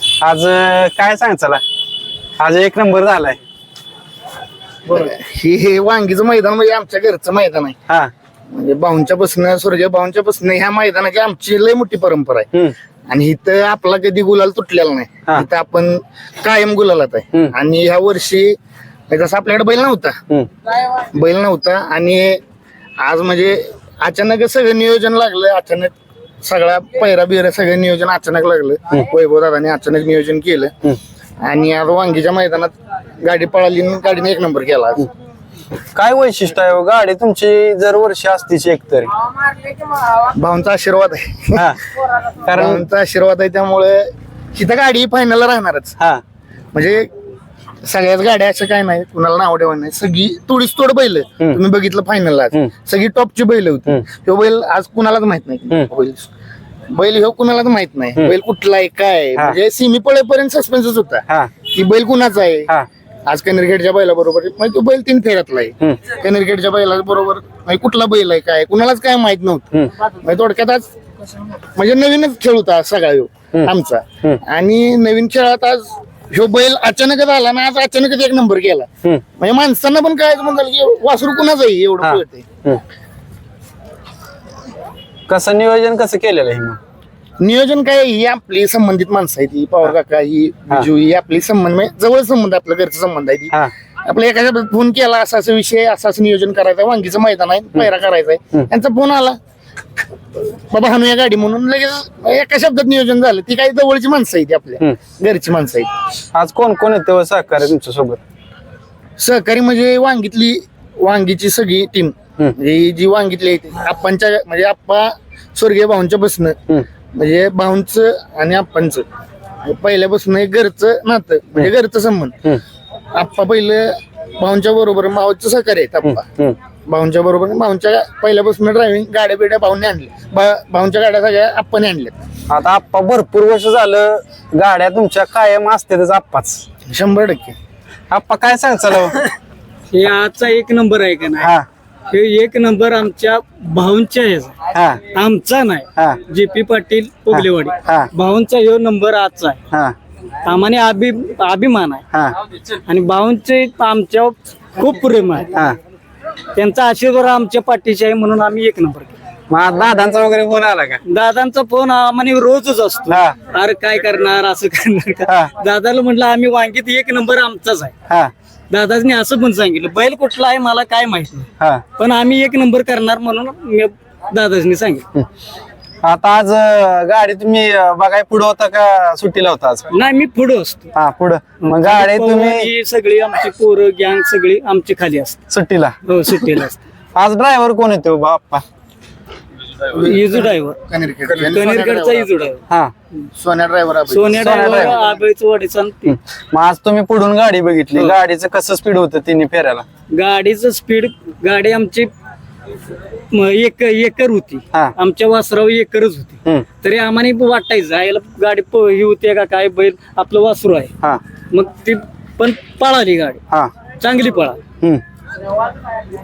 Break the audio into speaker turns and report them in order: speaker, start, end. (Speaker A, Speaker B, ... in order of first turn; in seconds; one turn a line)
Speaker A: 0.2-1.6
Speaker A: 2.4-3.4
Speaker B: 4.9-7.8
Speaker B: 8.5-12.5
Speaker B: 13.1-18.6
Speaker B: 19.1-20.2
Speaker B: 20.9-22.4
Speaker B: 23.0-25.9
Speaker B: 26.4-30.7
Speaker B: 31.4-35.1
Speaker A: 35.9-39.1
Speaker B: 40.0-41.6
Speaker A: 42.4-42.8
Speaker B: 42.5-46.0
Speaker B: 46.7-47.1
Speaker B: 47.8-56.3
Speaker B: 56.9-62.7
Speaker B: 63.2-70.9
Speaker B: 71.8-82.5
Speaker A: 82.0-82.8
Speaker A: 85.3-86.8
Speaker B: 87.4-99.4
Speaker B: 100.7-105.9
Speaker A: 106.3-108.2
Speaker B: 109.2-116.6
Speaker B: 117.1-119.0
Speaker B: 119.6-122.4
Speaker B: 123.1-126.2
Speaker A: 126.0-126.5
Speaker B: 126.9-132.2
Speaker A: 132.5-136.6
Speaker B: 136.9-137.6
Speaker A: 138.1-139.2
Speaker C: 139.9-141.5
Speaker A: 141.4-141.7
Speaker C: 142.1-144.6
Speaker A: 144.7-145.0
Speaker C: 145.1-149.6
Speaker A: 147.3-148.1
Speaker A: 149.7-149.9
Speaker C: 150.4-152.0
Speaker C: 152.8-155.5
Speaker C: 156.6-159.1
Speaker A: 159.5-161.0
Speaker C: 161.1-167.9
Speaker A: 163.1-163.3
Speaker A: 168.1-168.3
Speaker C: 168.7-175.1
Speaker A: 176.0-179.8
Speaker C: 179.9-180.9
Speaker A: 180.9-182.7
Speaker C: 181.6-185.4
Speaker A: 185.5-186.0
Speaker C: 186.1-186.8
Speaker A: 187.1-188.6
Speaker B: 189.9-192.3
Speaker C: 189.9-192.6
Speaker B: 193.4-195.1
Speaker C: 194.1-196.2
Speaker A: 194.3-195.0
Speaker A: 196.1-199.8
Speaker C: 200.1-202.1
Speaker C: 203.3-210.9
Speaker C: 211.5-213.4
Speaker C: 214.0-214.6